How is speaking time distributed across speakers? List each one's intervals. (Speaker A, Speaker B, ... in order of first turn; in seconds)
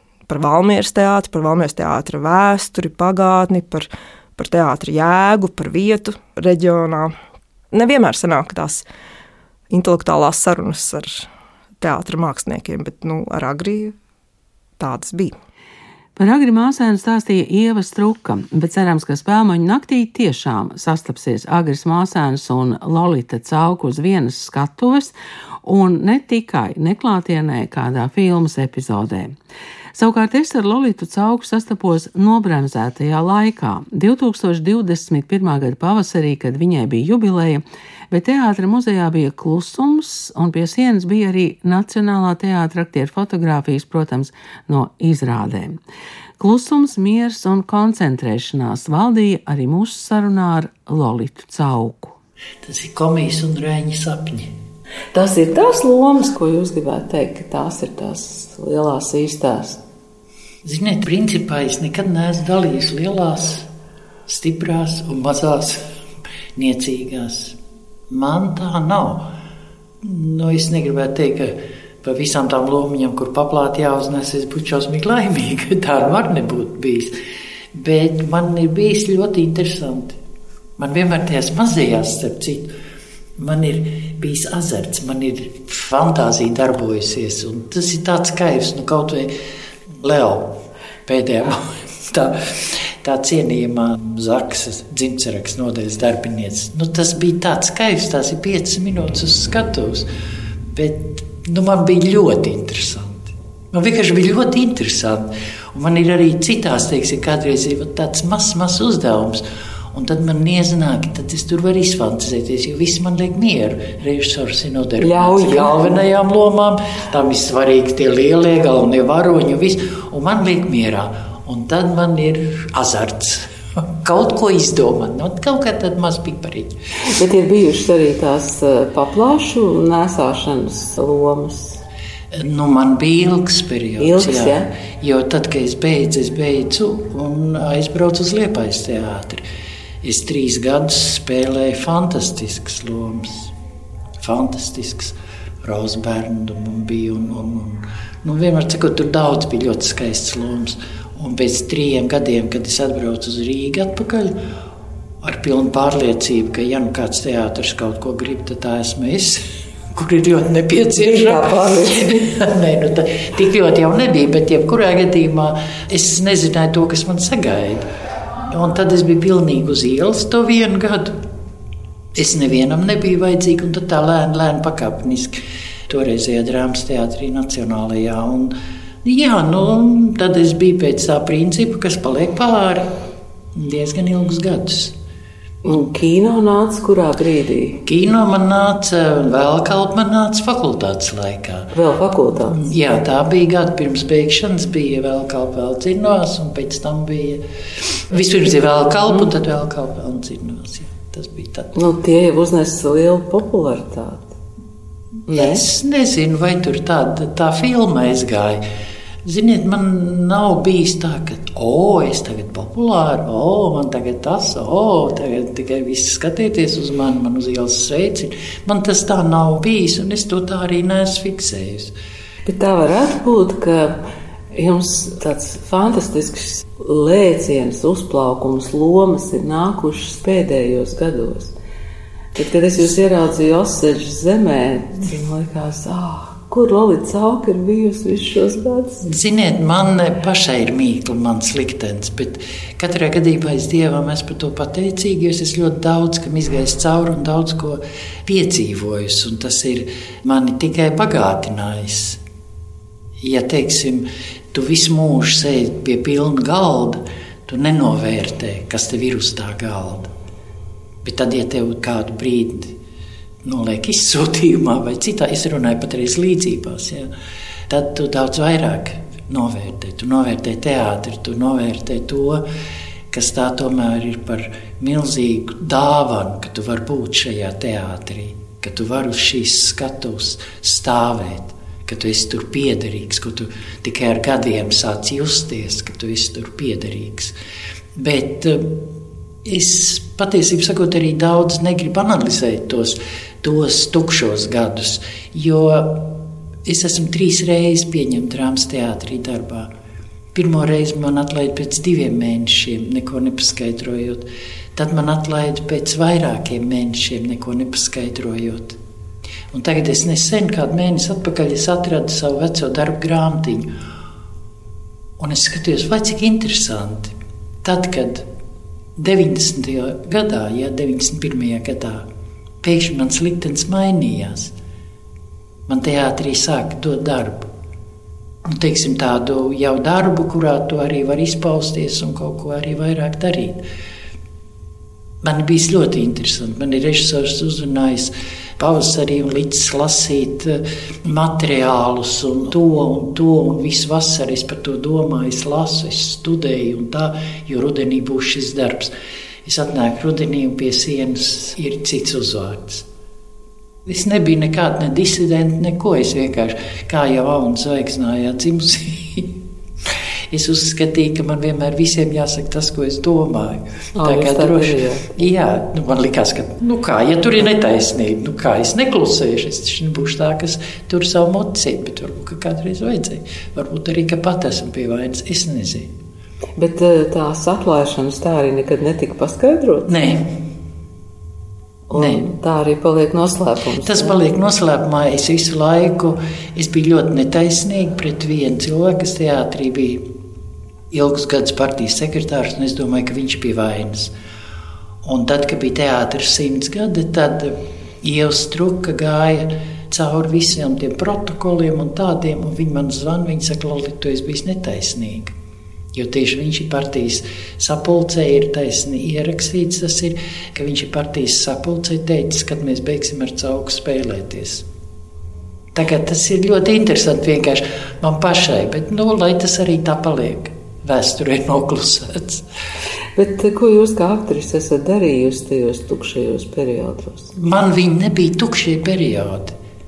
Speaker A: 0.3-7.1, 7.7-8.8, 9.7-11.3, 11.8-13.9, 14.8-15.3
Speaker B: 16.1-25.1, 25.6-29.3, 29.9-45.8, 46.4-52.2, 55.1-59.8, 115.0-116.0, 127.0-131.8, 134.0-134.7, 160.9-162.3, 185.6-187.8, 191.7-192.6, 201.7-204.3, 205.3-205.6, 222.5-224.0, 224.5-231.6, 232.3-239.1, 363.9-365.3, 376.6-379.9, 381.9-384.2, 423.1-427.3
Speaker C: 52.6-54.5, 60.6-63.7, 64.3-65.8, 66.6-67.6, 68.1-69.3, 70.0-77.2, 77.7-80.2, 80.8-82.7, 83.4-89.3, 90.0-92.4, 93.0-100.1, 100.7-126.8, 132.3-139.4, 140.0-143.5, 144.2-154.4, 155.2-167.9, 168.5-171.2, 172.1-175.4, 175.9-182.9, 183.6-184.9, 187.8-191.7, 192.5-197.4, 198.1-201.7, 205.3-208.6, 209.2-221.9, 239.0-252.2, 253.2-260.1, 261.0-262.8, 263.4-267.1, 267.7-272.4, 273.1-287.3, 288.0-288.9, 289.4-299.7, 300.4-308.8, 309.5-313.7, 315.2-318.3, 319.0-322.0, 322.6-324.5, 325.7-327.5, 328.5-333.6, 335.2-348.9, 349.4-352.9, 353.9-359.4, 360.3-375.9, 379.9-380.3, 381.9-382.3, 383.8-390.1, 390.9-394.1, 395.0-405.3, 405.9-414.6, 415.8-422.4, 427.4-429.6